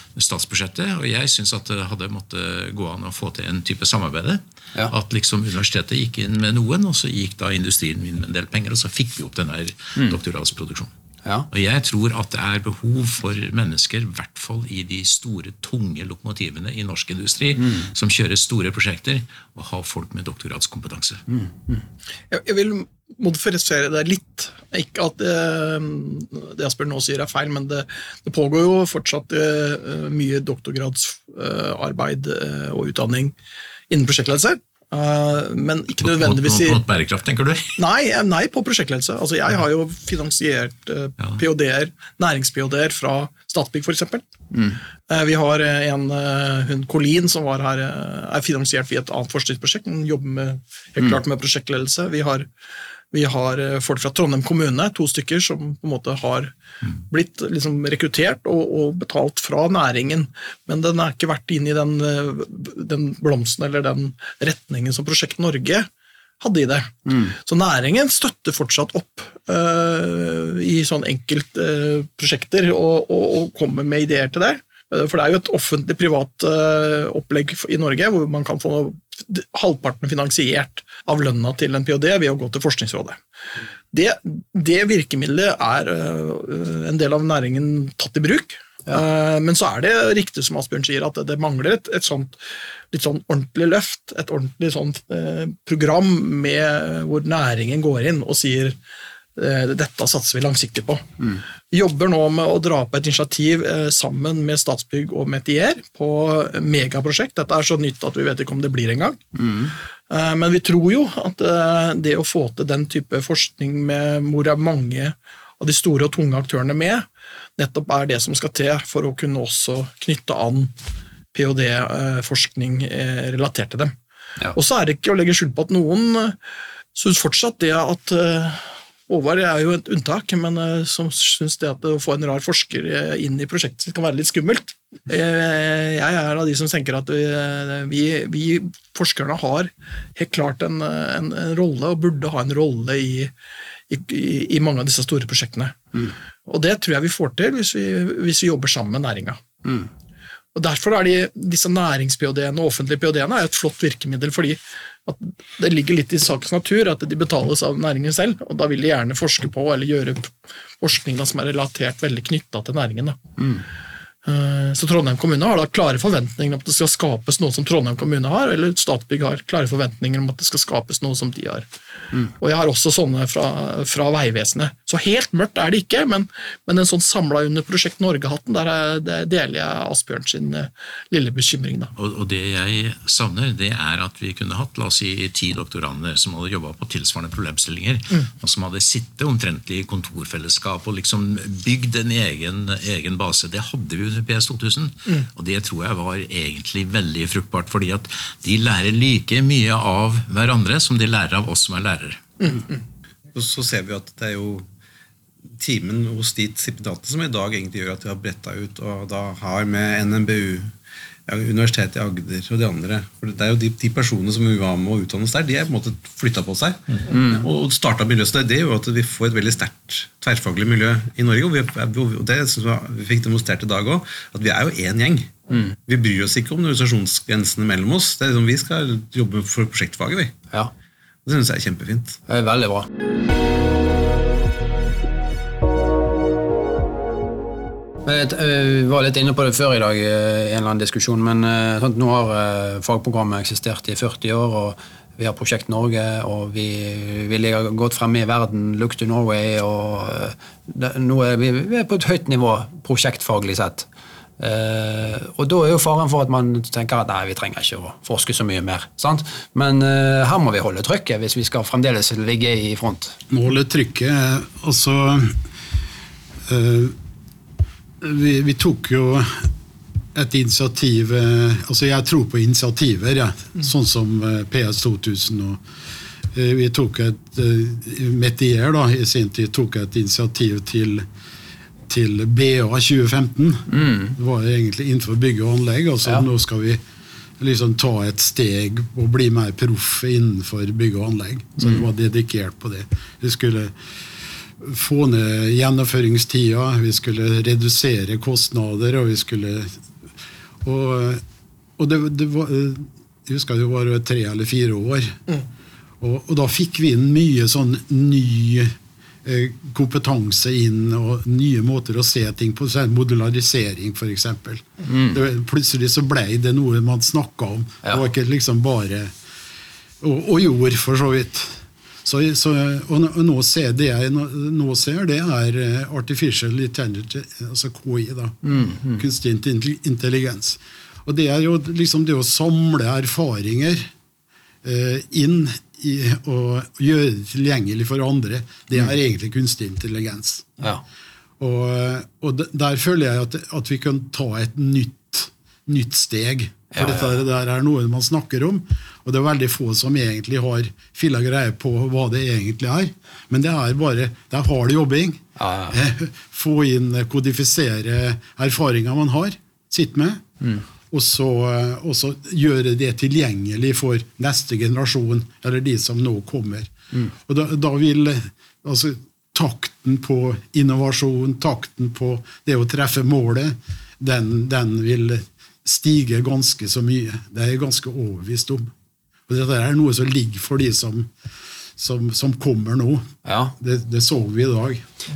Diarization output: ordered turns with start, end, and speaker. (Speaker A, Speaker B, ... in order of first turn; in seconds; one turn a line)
Speaker A: 0.1-10.9
Speaker A: 11.5-21.2
Speaker B: 21.3-21.8
Speaker C: 22.3-33.4
Speaker C: 33.9-36.8
Speaker A: 36.0-37.8
Speaker C: 37.8-44.2
Speaker B: 44.5-44.8
Speaker C: 45.1-52.5
Speaker C: 53.1-56.5
Speaker C: 57.1-65.9
Speaker C: 66.4-83.2
Speaker B: 67.1-67.4
Speaker C: 83.9-92.4
Speaker C: 92.9-98.8
Speaker C: 99.4-101.0
Speaker C: 101.7-109.2
Speaker B: 109.4-109.7
Speaker C: 110.1-117.1
Speaker C: 117.6-120.7
Speaker C: 121.3-123.9
Speaker C: 124.5-126.4
Speaker C: 127.0-143.3
Speaker C: 143.9-145.8
Speaker C: 146.5-149.4
Speaker C: 150.6-163.2
Speaker B: 163.4-163.6
Speaker C: 164.2-171.7
Speaker C: 172.4-181.9
Speaker A: 182.0-202.6
Speaker D: 203.3-204.7
Speaker D: 205.6-210.7
Speaker D: 211.3-230.4
Speaker B: 217.1-217.4
Speaker D: 231.2-232.2
Speaker B: 232.3-232.9
Speaker B: 238.1-253.9
Speaker B: 254.4-263.2
Speaker E: 263.3-265.4
Speaker E: 266.5-267.0
Speaker E: 268.0-269.5
Speaker E: 270.1-275.6
Speaker E: 276.3-281.1
Speaker E: 281.9-286.8
Speaker B: 283.7-284.1
Speaker E: 287.4-293.8
Speaker E: 294.6-299.7
Speaker E: 300.6-301.2
Speaker E: 301.8-305.2
Speaker E: 306.0-319.1
Speaker B: 314.9-315.2
Speaker E: 320.0-333.9
Speaker B: 328.5-329.0
Speaker E: 334.6-340.7
Speaker E: 341.4-360.2
Speaker B: 346.7-347.1
Speaker B: 355.4-355.8
Speaker E: 360.9-378.7
Speaker E: 379.3-381.1
Speaker E: 381.8-384.8
Speaker B: 383.2-383.5